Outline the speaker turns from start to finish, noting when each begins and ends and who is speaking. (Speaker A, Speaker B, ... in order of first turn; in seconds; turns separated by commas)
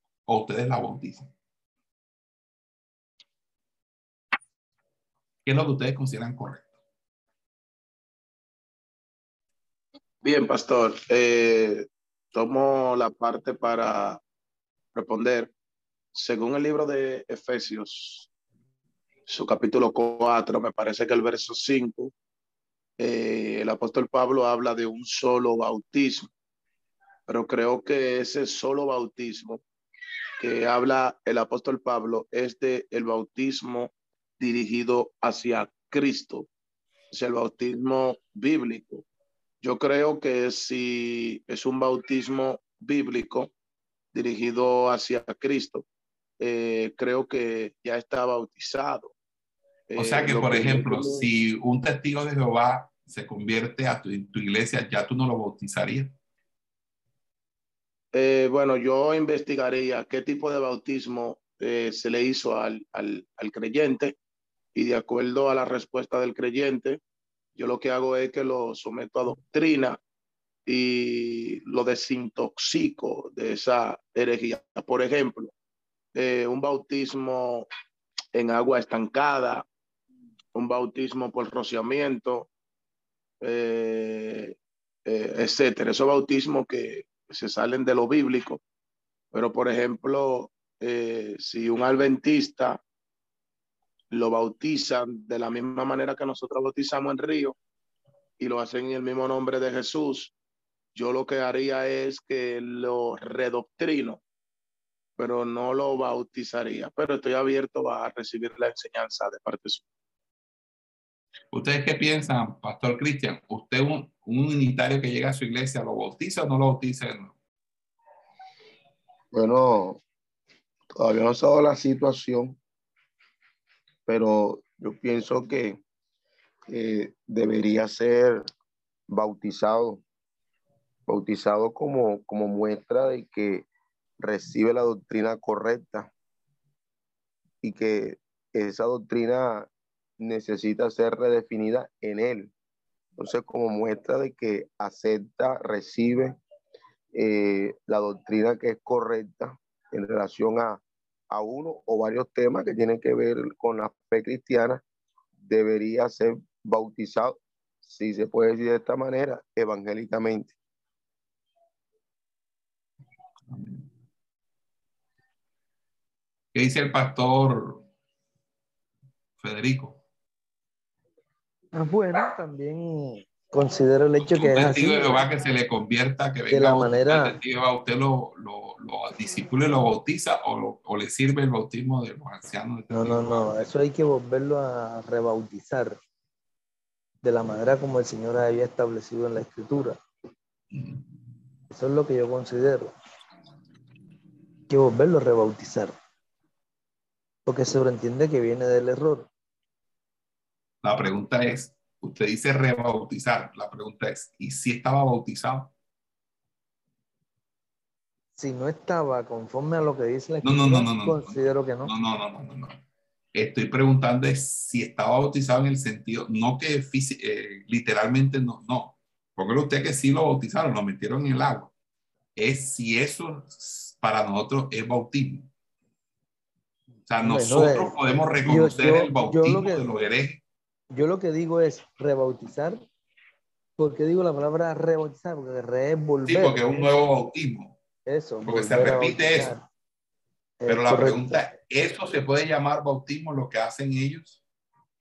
Speaker A: 0.3-1.3, Speaker A: 5.5-6.7, Speaker B: 10.2-14.2, Speaker B: 14.9-15.5, Speaker B: 16.1-18.3, Speaker B: 19.3-22.1, Speaker B: 23.0-26.3, Speaker B: 27.3-29.6, Speaker B: 30.4-36.5, Speaker B: 37.1-39.0, Speaker B: 39.6-43.5, Speaker B: 44.1-45.9, Speaker B: 46.4-49.1, Speaker B: 49.9-51.3, Speaker A: 50.0-56.1, Speaker B: 58.1-64.2, Speaker B: 64.7-67.0, Speaker B: 67.5-70.0, Speaker B: 70.7-75.5, Speaker B: 76.1-77.7, Speaker B: 78.3-79.7, Speaker B: 80.5-82.5, Speaker B: 83.4-88.6, Speaker B: 89.3-92.8, Speaker B: 94.1-97.5, Speaker B: 98.4-100.3, Speaker B: 101.0-104.2, Speaker B: 105.2-109.8, Speaker A: 111.5-117.3, Speaker C: 119.3-120.0, Speaker C: 120.9-122.6, Speaker C: 124.1-125.8, Speaker C: 126.7-128.5, Speaker C: 129.1-130.0, Speaker C: 131.1-133.7, Speaker C: 134.2-136.1, Speaker C: 137.6-142.5, Speaker C: 143.2-146.4, Speaker C: 147.1-154.8, Speaker C: 155.4-160.6, Speaker A: 163.5-163.9, Speaker A: 166.5-167.9, Speaker A: 169.4-170.0, Speaker D: 171.7-175.2, Speaker A: 174.3-183.7, Speaker D: 176.5-177.4, Speaker D: 182.9-186.0, Speaker D: 187.2-190.0, Speaker D: 191.7-192.9, Speaker D: 194.7-195.9, Speaker D: 197.4-199.3, Speaker A: 200.8-205.7, Speaker D: 208.4-211.9, Speaker A: 210.4-212.8, Speaker A: 213.3-221.7, Speaker A: 222.4-225.5, Speaker A: 227.1-230.4, Speaker D: 227.2-229.9, Speaker D: 230.9-232.8, Speaker D: 233.8-236.9, Speaker A: 236.2-237.8, Speaker D: 238.1-239.7, Speaker A: 238.4-239.6, Speaker D: 240.6-241.4, Speaker A: 240.7-244.4